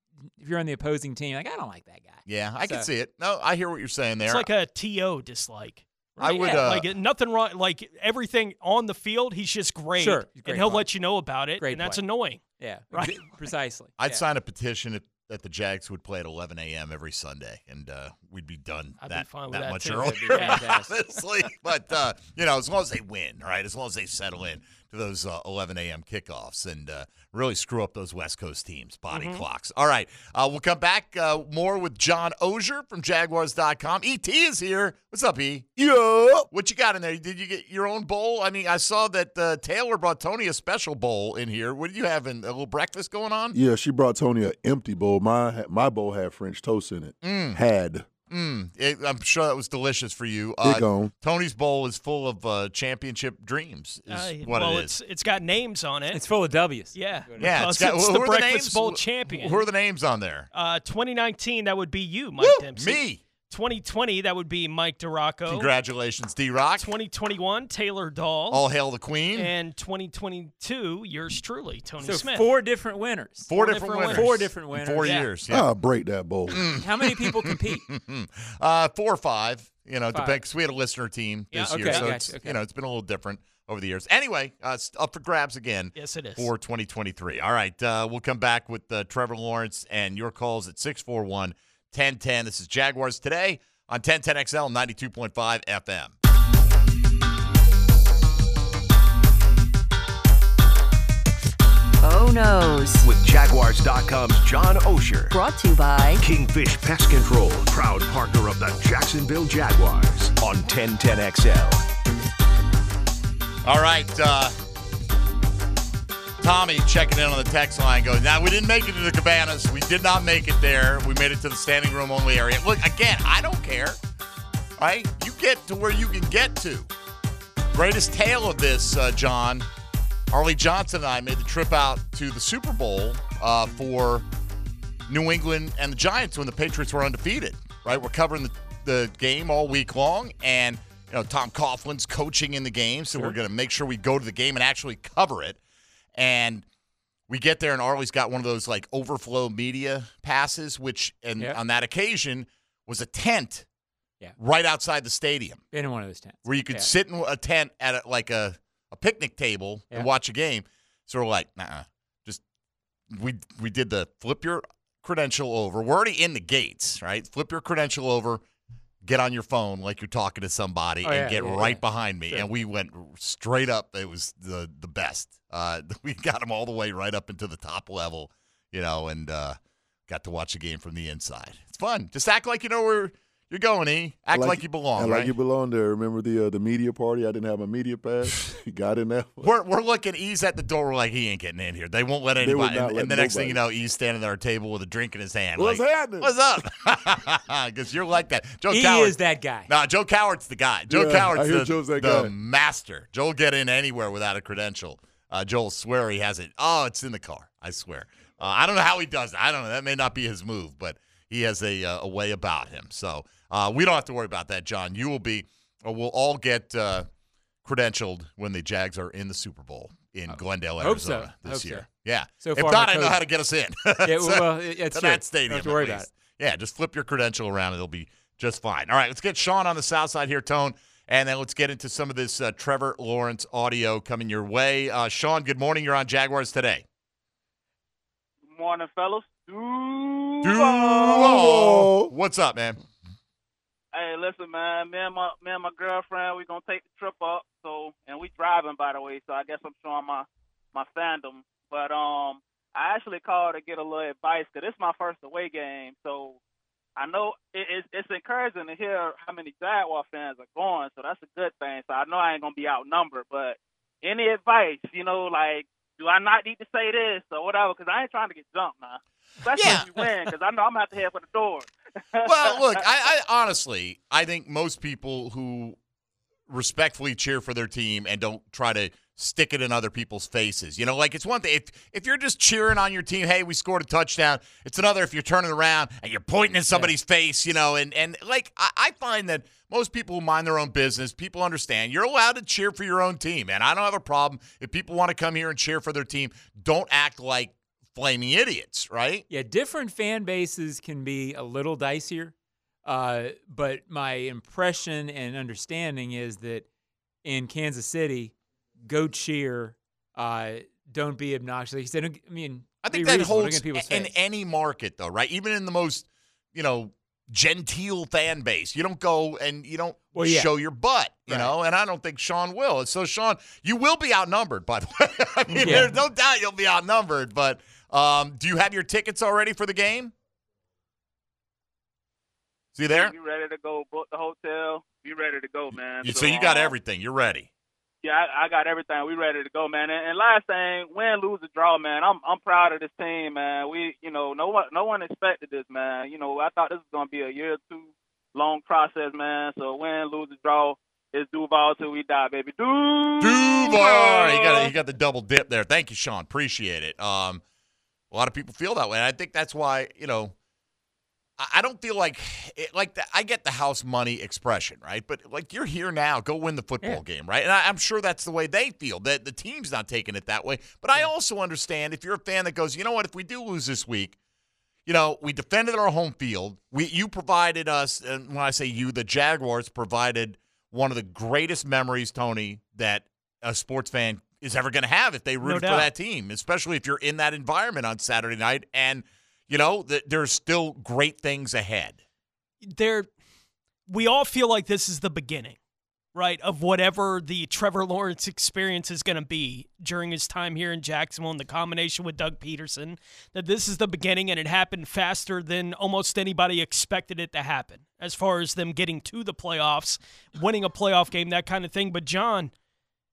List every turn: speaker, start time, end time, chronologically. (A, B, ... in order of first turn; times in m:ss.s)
0:00.4-0:02.9 A
0:02.3-0:04.5 B
0:04.2-0:13.3 C
0:06.2-0:06.9 B
0:06.2-0:06.7 A
0:10.0-0:10.9 A
0:11.6-0:12.0 A
0:12.6-0:14.2 A
0:14.0-0:35.7 B
0:19.0-0:20.7 C
0:20.3-0:21.0 A
0:29.1-0:29.4 C
0:35.8-0:36.5 D
0:36.5-0:43.6 B
0:43.5-0:48.1 D
0:47.2-0:47.6 B
0:48.3-0:54.9 B
0:50.6-0:51.1 D
0:54.1-0:56.2 C
0:56.1-0:57.5 A
0:56.9-0:59.6 C
0:57.4-1:00.5 B
1:00.5-1:05.7 C
1:02.4-1:03.2 B
1:05.5-1:06.9 B
1:06.8-1:08.6 C
1:08.5-1:09.5 B
1:09.3-1:12.5 C
1:12.0-1:15.3 A
1:13.5-1:15.7 B
1:13.5-1:14.3 C
1:15.5-1:16.6 D
1:16.5-1:36.2 B
1:16.7-1:17.8 A
1:20.1-1:20.4 A
1:21.5-1:22.1 C
1:21.6-1:22.6 A
1:26.0-1:26.5 C
1:42.0-1:43.1 E
1:43.0-1:45.4 F
1:45.3-1:46.2 E
1:46.2-1:51.8 F
1:53.6-1:54.6 B
1:56.4-2:04.0 B
2:04.8-2:06.9 B
2:07.7-2:09.7 B
2:10.3-2:14.2 B
2:15.1-2:25.6 B
2:26.2-2:26.6 B
2:27.3-2:33.7 B
2:34.4-2:35.6 B
2:35.7-2:36.9 A
2:36.4-2:42.4 B
2:43.1-2:48.4 B
2:49.0-2:59.6 B
2:51.0-2:52.5 A
3:00.1-3:05.3 B
3:04.3-3:09.5 D
3:09.4-3:37.1 B
3:12.4-3:13.6 D
3:15.6-3:16.3 D
3:18.7-3:19.7 A
3:20.9-3:22.3 D
3:37.6-3:56.8 B
3:40.3-3:43.2 A
3:44.0-3:46.1 A
3:58.5-4:01.2 G
4:00.4-4:02.8 B
4:00.9-4:02.1 D
4:03.9-4:16.4 G
4:17.0-4:32.8 G
4:29.5-4:30.0 B
4:32.2-4:35.8 B
4:36.5-4:59.2 B
4:59.3-5:02.3 A
5:02.8-5:06.7 A
5:07.2-5:14.1 A
5:12.8-5:30.1 B
5:20.1-5:20.5 A
5:21.3-5:21.5 A
5:25.6-5:26.0 A
5:32.8-5:33.1 B
5:32.9-5:36.8 G
5:36.0-5:37.5 B
5:38.0-5:54.7 G
5:53.2-5:57.4 B
5:58.1-6:00.3 B
6:01.4-6:14.2 B
6:14.9-6:32.0 B
6:25.4-6:25.9 C
6:32.6-6:33.1 C
6:33.9-6:35.6 C
6:36.2-6:52.5 C